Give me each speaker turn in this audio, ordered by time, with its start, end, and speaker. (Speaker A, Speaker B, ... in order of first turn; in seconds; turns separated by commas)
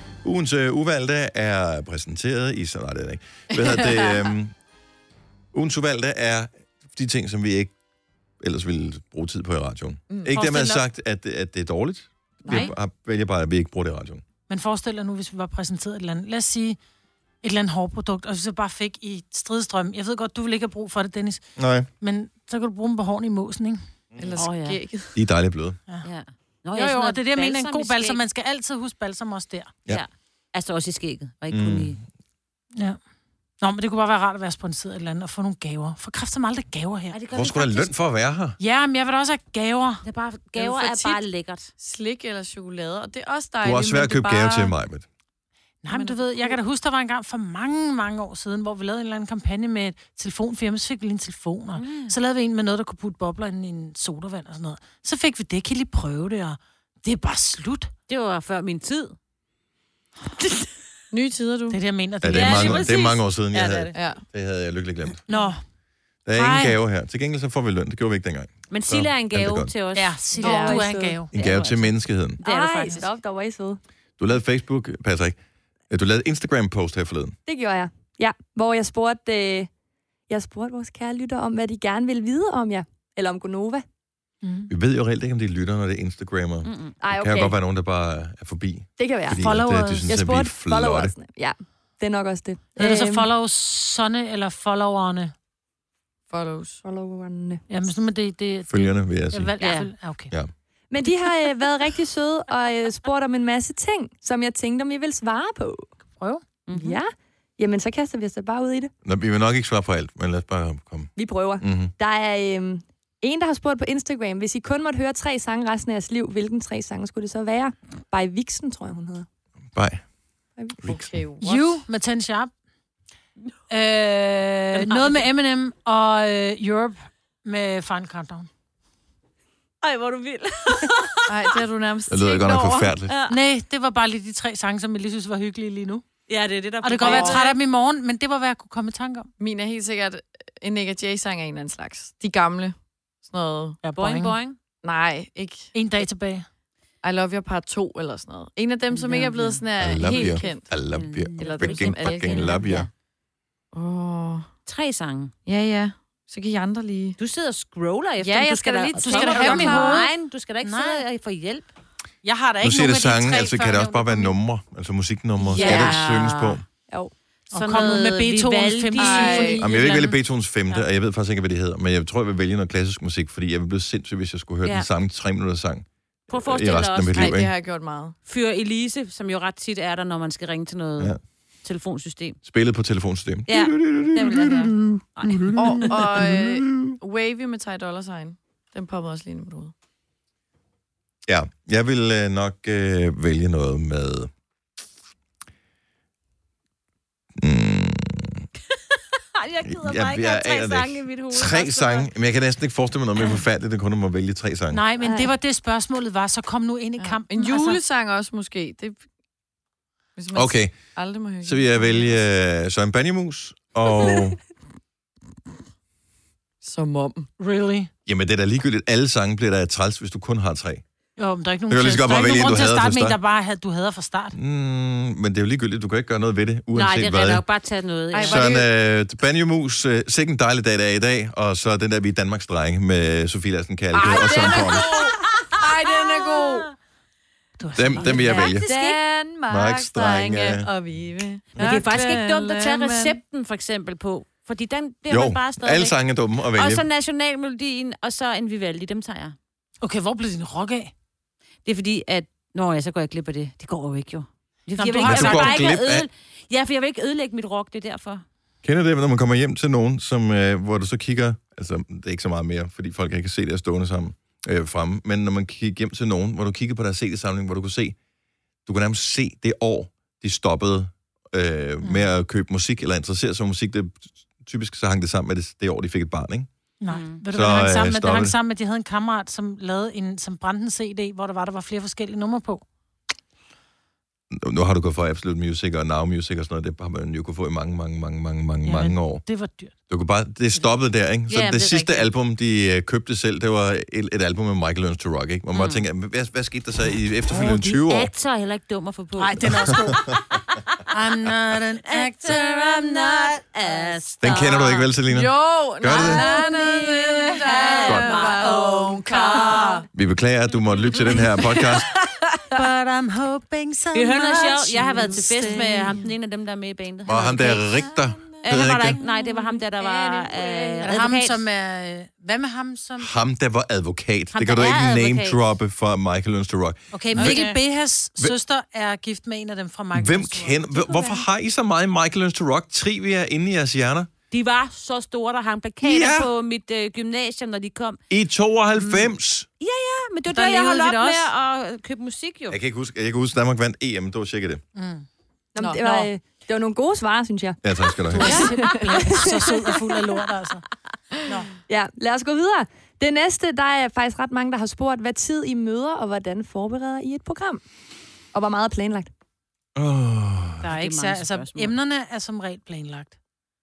Speaker A: 0.2-4.5, Speaker B: 3.5-4.3, Speaker A: 5.5-7.7, Speaker A: 8.4-14.2, Speaker C: 10.3-10.8, Speaker B: 12.4-12.7, Speaker D: 14.5-16.8, Speaker D: 17.4-21.5, Speaker A: 21.6-21.9, Speaker D: 22.0-23.8, Speaker B: 24.2-25.1, Speaker C: 24.4-24.8, Speaker A: 25.1-25.8, Speaker C: 26.0-28.2, Speaker D: 26.8-29.8, Speaker C: 29.9-32.0, Speaker A: 31.5-32.0, Speaker D: 33.6-37.2, Speaker C: 37.1-37.9, Speaker A: 37.3-38.6, Speaker D: 38.6-40.0, Speaker C: 40.0-41.7, Speaker B: 40.6-41.2, Speaker B: 41.8-44.7, Speaker A: 43.6-45.0, Speaker D: 45.8-57.9, Speaker B: 45.9-46.6, Speaker C: 51.8-52.1, Speaker C: 58.1-59.2, Speaker C: 60.4-60.7, Speaker B: 61.1-61.8, Speaker D: 61.7-62.9, Speaker A: 62.2-65.2, Speaker C: 62.3-64.0, Speaker B: 63.9-64.2, Speaker D: 65.3-65.6, Speaker A: 66.3-69.7, Speaker D: 66.4-66.7, Speaker C: 68.7-70.4, Speaker D: 69.9-71.3, Speaker B: 70.4-70.8, Speaker E: 70.4-71.2, Speaker A: 71.3-72.4, Speaker C: 71.3-73.1, Speaker E: 72.4-73.8, Speaker A: 74.2-75.4, Speaker A: 75.9-77.4, Speaker E: 77.5-79.7, Speaker E: 80.3-83.8, Speaker D: 84.4-84.7, Speaker A: 84.7-91.1, Speaker C: 86.7-87.0, Speaker E: 87.0-87.5, Speaker E: 89.0-89.4, Speaker D: 89.4-90.2, Speaker E: 90.1-93.3, Speaker D: 92.8-95.3, Speaker B: 96.3-96.8, Speaker E: 96.8-97.6, Speaker D: 97.7-100.3, Speaker A: 98.7-99.5, Speaker C: 99.6-99.9, Speaker E: 100.9-105.9, Speaker D: 106.2-106.4, Speaker C: 106.7-107.0, Speaker E: 106.7-108.9, Speaker A: 109.0-111.9, Speaker E: 111.2-119.3, Speaker A: 119.8-120.0, Speaker A: 120.8-121.1, Speaker B: 120.8-121.8, Speaker D: 121.4-122.5, Speaker D: 123.7-128.5, Speaker C: 124.8-125.2, Speaker C: 129.8-131.6, Speaker B: 131.3-132.9, Speaker A: 132.1-133.1, Speaker C: 133.1-133.4, Speaker D: 133.3-136.1, Speaker C: 136.3-137.5, Speaker D: 136.8-139.3, Speaker B: 137.0-137.6, Speaker B: 139.4-143.8, Speaker D: 143.8-144.4, Speaker C: 143.9-144.6, Speaker B: 144.8-145.7, Speaker D: 145.7-146.5, Speaker B: 147.0-150.7, Speaker C: 148.9-152.9, Speaker A: 149.8-152.9, Speaker B: 151.4-152.7, Speaker B: 153.7-154.5, Speaker C: 154.7-155.3, Speaker B: 155.5-157.2, Speaker C: 157.2-161.7, Speaker B: 158.2-160.1, Speaker D: 158.9-160.1, Speaker D: 160.6-161.0, Speaker D: 162.2-164.3, Speaker A: 162.6-166.7, Speaker C: 165.5-166.6, Speaker D: 167.5-170.2, Speaker C: 167.5-169.7, Speaker B: 169.0-169.6, Speaker A: 169.6-177.5, Speaker C: 176.3-177.4, Speaker B: 177.1-178.2, Speaker C: 178.2-182.4, Speaker A: 182.4-186.9, Speaker C: 183.5-185.5, Speaker B: 185.6-189.7, Speaker A: 191.3-194.3, Speaker A: 197.3-198.5, Speaker C: 198.7-202.1, Speaker A: 199.7-204.8, Speaker D: 204.7-207.8, Speaker E: 205.0-205.3, Speaker B: 207.0-209.1, Speaker B: 210.2-212.2, Speaker A: 210.3-210.8, Speaker A: 211.4-214.4, Speaker B: 216.6-217.3, Speaker D: 217.4-217.9, Speaker A: 218.1-220.8, Speaker D: 221.2-224.4, Speaker A: 221.7-223.2, Speaker A: 224.3-227.4, Speaker C: 226.7-228.6, Speaker B: 228.1-228.7, Speaker A: 228.2-234.9, Speaker C: 233.9-235.4, Speaker B: 234.0-236.7, Speaker D: 237.6-238.5, Speaker A: 237.8-238.7, Speaker C: 238.0-239.0, Speaker B: 238.6-243.2, Speaker A: 239.5-240.7, Speaker C: 241.6-246.0, Speaker A: 245.1-246.8, Speaker C: 246.5-249.3, Speaker D: 249.8-250.9, Speaker C: 251.7-258.2, Speaker D: 254.7-255.7, Speaker A: 255.0-256.1, Speaker A: 258.6-268.0, Speaker A: 268.7-276.5, Speaker D: 271.8-272.1, Speaker D: 276.8-282.6, Speaker C: 276.9-277.2, Speaker A: 277.3-278.4, Speaker A: 284.3-289.2, Speaker D: 288.6-289.7, Speaker A: 289.9-298.1, Speaker C: 291.3-292.1, Speaker C: 295.5-295.8, Speaker C: 297.4-299.4, Speaker D: 299.2-300.2, Speaker A: 299.7-300.1, Speaker D: 300.9-304.0, Speaker C: 301.9-304.9, Speaker A: 304.2-306.3, Speaker B: 305.1-309.9, Speaker C: 305.9-309.8, Speaker A: 307.9-308.2, Speaker A: 309.9-311.9, Speaker C: 310.9-311.3, Speaker D: 312.5-316.1, Speaker C: 313.9-317.8, Speaker A: 317.1-319.0, Speaker B: 317.9-321.1, Speaker C: 318.5-321.4, Speaker D: 320.8-323.1, Speaker A: 323.0-327.4, Speaker C: 324.3-325.4, Speaker D: 326.9-330.6, Speaker C: 327.1-327.6, Speaker A: 329.9-334.1, Speaker C: 334.3-338.0, Speaker A: 335.8-336.3, Speaker A: 338.1-339.5, Speaker C: 339.6-342.6, Speaker D: 340.3-341.3, Speaker A: 342.5-344.6, Speaker D: 344.8-345.1, Speaker E: 345.5-347.6, Speaker B: 345.6-346.1, Speaker A: 347.6-348.5, Speaker D: 348.1-350.6, Speaker E: 348.2-349.2, Speaker B: 348.3-349.6, Speaker E: 351.7-357.6, Speaker E: 358.3-359.1, Speaker A: 359.8-360.7, Speaker D: 360.6-363.1, Speaker C: 360.7-361.8